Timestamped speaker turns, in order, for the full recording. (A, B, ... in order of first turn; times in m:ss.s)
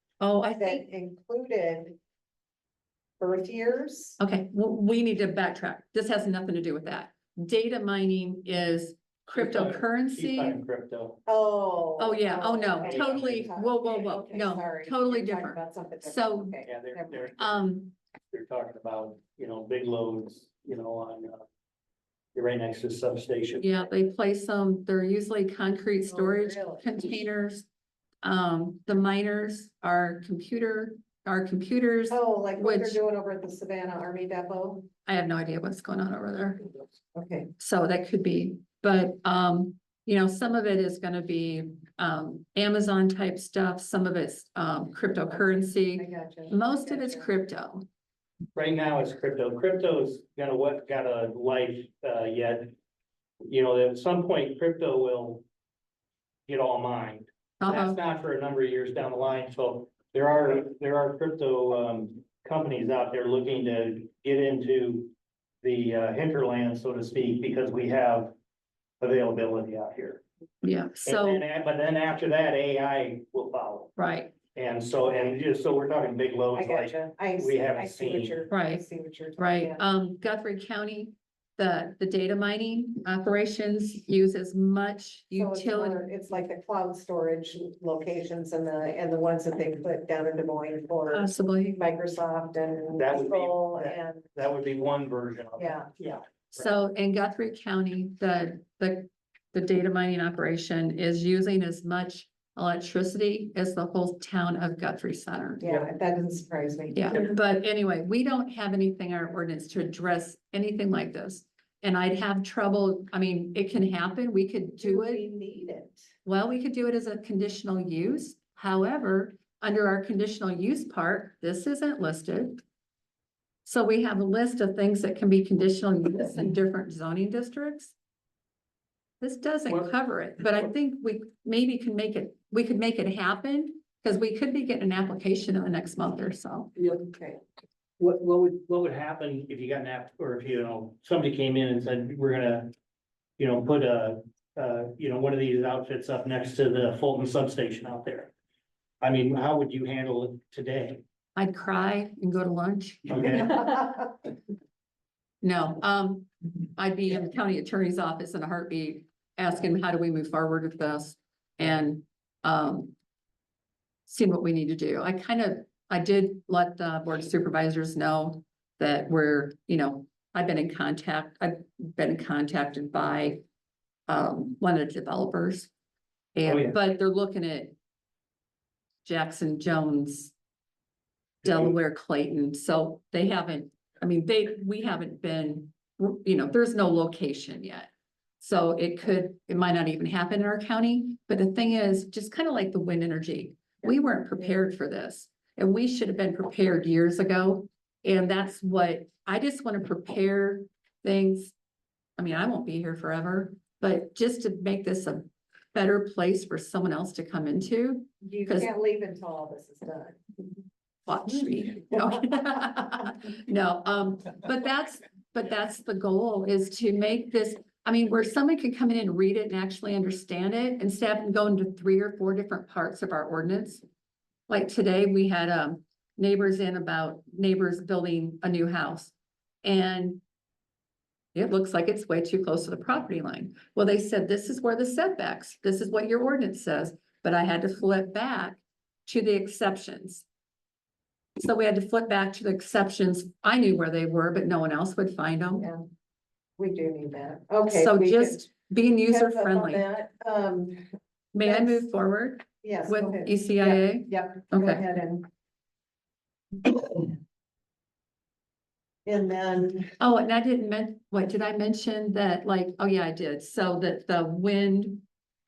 0:00.2-0:00.8 A
0:00.6-0:02.0 B
0:03.2-0:04.2 B
0:04.2-0:10.6 A
0:09.4-0:11.2 C
0:11.3-0:17.4 B
0:12.0-0:16.6 A
0:12.8-0:13.5 C
0:16.6-0:17.8 C
0:17.4-0:17.9 A
0:18.3-0:21.4 C
0:22.4-0:23.6 C
0:23.6-0:27.7 A
0:26.1-0:26.9 B
0:28.2-0:33.0 A
0:32.1-0:34.9 B
0:35.1-0:36.7 A
0:37.2-0:37.5 B
0:37.6-0:47.9 A
0:45.3-0:47.3 B
0:48.6-0:52.7 C
0:53.5-0:55.5 C
0:56.5-1:08.3 C
0:57.6-0:58.0 A
1:09.0-1:10.2 C
1:10.6-1:11.4 A
1:11.0-1:14.0 C
1:14.0-1:14.3 A
1:14.5-1:18.4 C
1:16.6-1:19.8 B
1:18.5-1:18.8 A
1:19.4-1:26.1 A
1:25.3-1:34.3 B
1:31.1-1:31.8 A
1:33.0-1:36.7 C
1:35.6-1:35.9 B
1:36.5-1:45.7 A
1:45.6-1:47.3 B
1:46.9-1:55.3 A
1:54.8-1:56.1 B
1:56.2-2:02.6 A
2:03.6-2:07.9 A
2:09.2-2:16.7 A
2:16.8-2:17.1 C
2:17.1-2:17.4 B
2:18.0-2:22.7 C
2:23.4-2:28.3 C
2:29.0-2:31.0 C
2:31.4-2:34.1 A
2:33.1-2:33.6 C
2:35.4-2:42.9 A
2:44.1-2:53.4 A
2:54.1-2:55.7 A
2:56.4-2:57.8 A
2:56.4-2:56.8 C
2:59.0-3:00.3 A
3:01.4-3:21.5 A
3:22.2-3:28.7 A
3:28.2-3:30.2 B
3:31.1-3:43.8 A
3:44.5-3:50.2 A
3:51.4-4:00.2 A
4:01.4-4:05.7 A
4:06.6-4:08.5 B
4:07.7-4:09.8 A
4:09.1-4:10.8 B
4:11.3-4:14.8 A
4:11.4-4:11.8 B
4:12.6-4:15.3 B
4:19.1-4:19.9 B
4:20.0-4:25.0 A